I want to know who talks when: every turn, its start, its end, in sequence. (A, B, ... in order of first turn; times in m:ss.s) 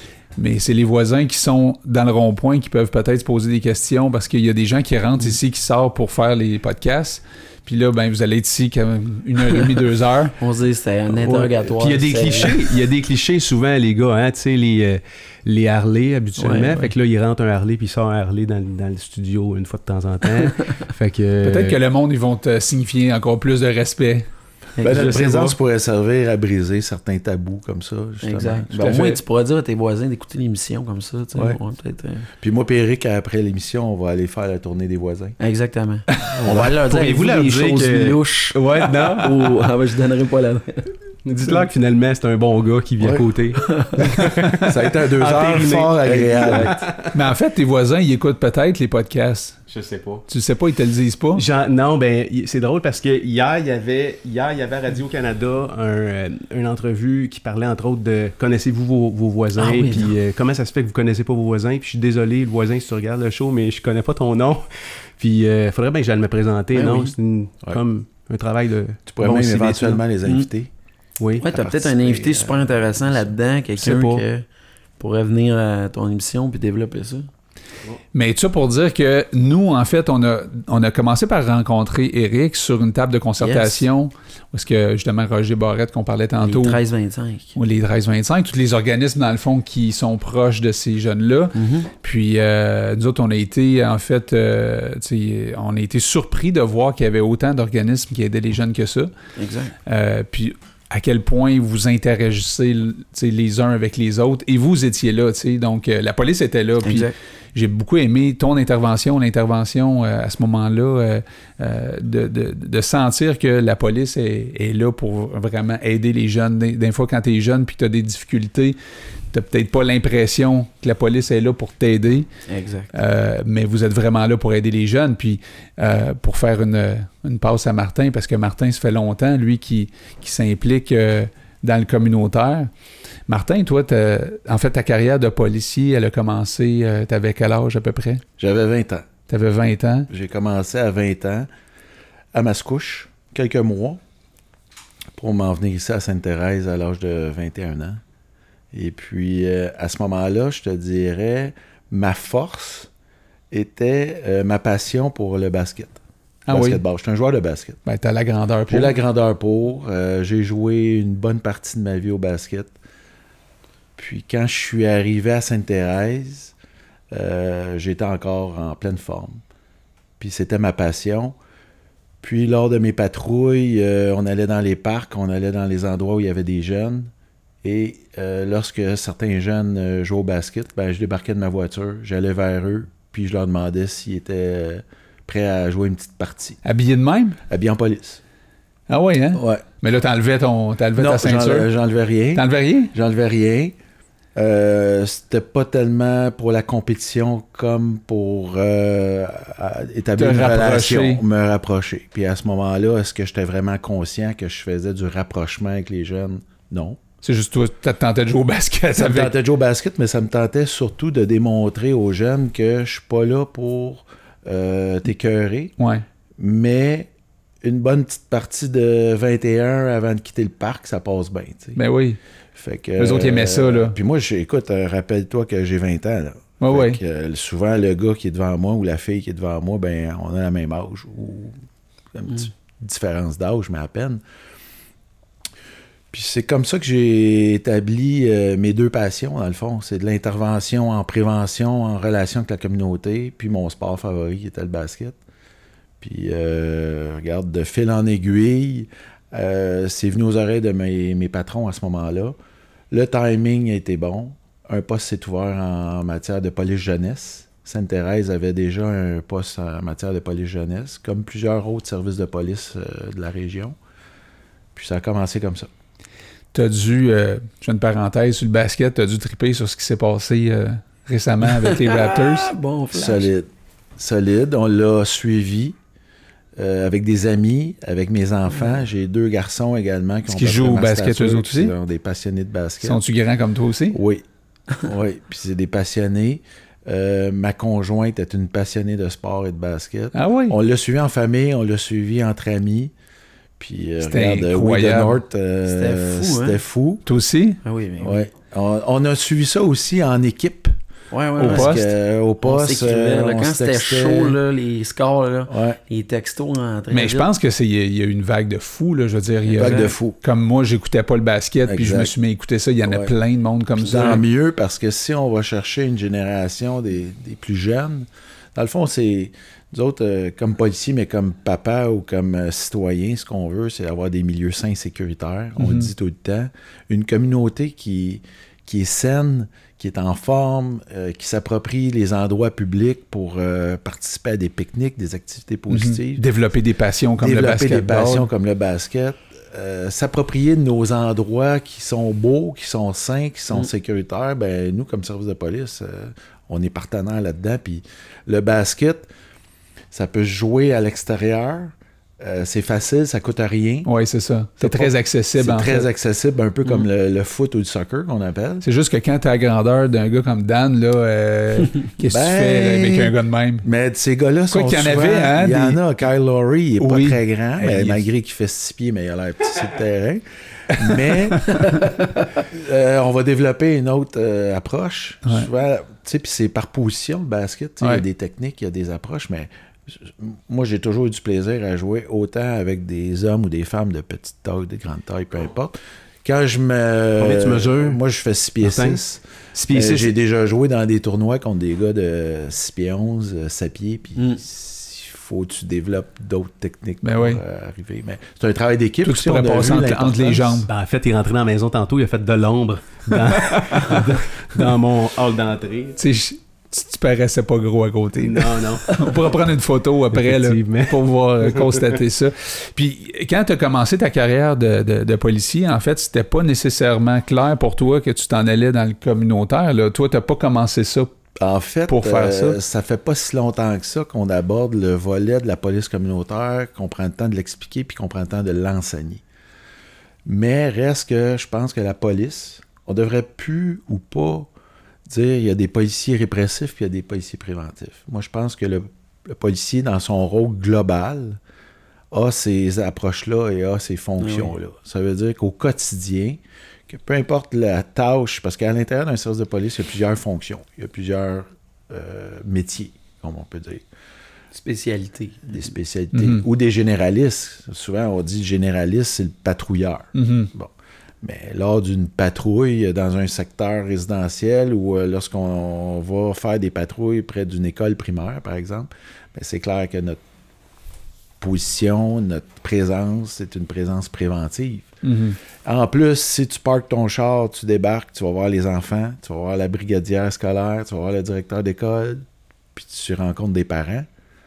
0:00.4-0:10.4 A
0:10.4-0:12.6 B
0:11.2-0:21.8 C
0:16.4-0:16.9 A
0:16.4-0:16.7 B
0:21.4-0:24.3 A
0:24.8-0:25.5 B
0:24.8-0:28.8 D
0:28.2-0:32.3 B
0:28.8-0:29.2 A
0:32.4-0:35.4 D
0:35.4-0:40.9 B
0:36.3-0:39.6 C
0:36.4-0:36.8 D
0:41.2-0:47.2 C
0:43.0-0:43.2 D
0:43.6-0:44.2 B
0:44.6-0:46.8 D
0:47.1-0:49.7 A
0:49.7-0:50.2 C
0:50.3-0:51.4 A
0:51.4-1:10.0 C
0:59.6-1:00.1 B
1:06.7-1:07.1 B
1:09.1-1:10.7 D
1:11.4-1:14.4 B
1:11.4-1:13.3 D
1:13.8-1:14.2 C
1:15.0-1:17.3 B
1:18.1-1:26.8 A
1:23.4-1:23.9 B
1:26.4-1:27.6 B
1:27.5-1:39.1 A
1:31.5-1:31.9 B
1:39.4-1:39.7 B
1:39.8-1:58.8 A
1:46.8-1:47.1 B
1:59.3-2:02.3 A
2:02.5-2:02.9 B
2:02.9-2:12.7 A
2:13.3-2:18.2 A
2:18.4-2:19.1 D
2:19.3-2:20.1 A
2:20.1-2:21.5 D
2:22.3-2:24.0 D
2:25.2-2:28.0 D
2:28.7-2:32.9 D
2:33.5-2:37.8 D
2:36.5-2:36.8 A
2:37.8-2:38.9 A
2:38.7-2:42.7 D
2:44.0-2:46.5 D
2:47.1-2:49.4 D
2:50.2-2:51.4 D
2:52.2-2:57.1 D
2:57.6-3:06.6 D
3:06.6-3:07.4 A
3:07.5-3:08.2 D
3:08.9-3:11.7 A
3:09.3-3:09.6 D
3:11.0-3:13.8 D
3:12.3-3:12.9 A
3:14.4-3:27.0 D
3:20.2-3:21.2 A
3:27.2-3:29.3 A
3:28.9-3:35.7 D
3:35.8-3:36.0 A
3:36.4-3:37.1 D
3:37.6-3:41.8 D
3:41.8-3:42.2 A
3:42.5-3:51.6 D
3:43.0-3:44.0 A
3:46.6-3:47.0 A
3:52.1-3:54.2 D
3:56.1-4:05.2 D
4:06.0-4:12.3 D
4:12.9-4:23.8 D
4:24.7-4:25.7 D
4:26.5-4:32.5 A
4:31.5-4:33.3 B
4:32.9-4:35.8 D
4:36.6-4:43.0 D
4:40.3-4:41.7 A
4:42.8-4:44.0 A
4:43.9-4:44.2 D
4:44.8-4:52.9 D
4:50.1-4:50.6 A
4:53.6-4:57.0 D
4:54.0-4:55.2 A
4:55.6-4:56.6 B
4:57.0-4:57.6 A
4:57.6-4:58.2 B
4:58.0-5:00.7 D
5:01.1-5:01.8 B
5:01.4-5:01.9 A
5:01.4-5:04.4 D
5:02.4-5:07.3 B
5:05.5-5:05.8 D
5:06.9-5:14.2 A
5:09.5-5:09.9 B
5:09.5-5:10.2 D
5:11.6-5:12.1 D
5:12.8-5:13.1 D
5:13.8-5:36.2 D
5:13.9-5:14.2 B
5:25.6-5:25.9 A
5:35.7-5:38.3 A
5:37.2-5:49.1 D
5:49.9-5:53.9 D
5:53.8-5:55.8 A
5:54.6-5:58.6 D
5:58.6-6:03.6 A
6:02.1-6:03.1 D
6:03.6-6:40.7 D
6:04.5-6:05.8 A
6:06.8-6:08.0 A
6:10.7-6:11.7 A
6:27.2-6:28.0 C
6:28.6-6:29.0 C
6:29.5-6:30.1 A
6:34.2-6:34.4 B
6:37.0-6:37.4 A
6:39.0-6:40.7 A
6:40.7-6:46.0 C
6:43.6-6:44.0 A
6:46.0-7:01.1 A
6:48.2-6:49.3 C
6:50.1-6:52.0 C
7:01.4-7:09.2 D
7:01.9-7:02.6 A
7:10.2-7:14.5 D
7:15.1-7:21.4 D
7:22.1-7:33.8 D
7:24.2-7:24.5 B
7:34.5-7:35.6 B
7:35.5-7:50.2 D
7:36.1-7:36.4 A
7:40.1-7:40.5 A
7:51.4-7:54.9 D
7:55.0-7:55.4 A
7:55.6-8:02.2 D
8:02.7-8:04.0 D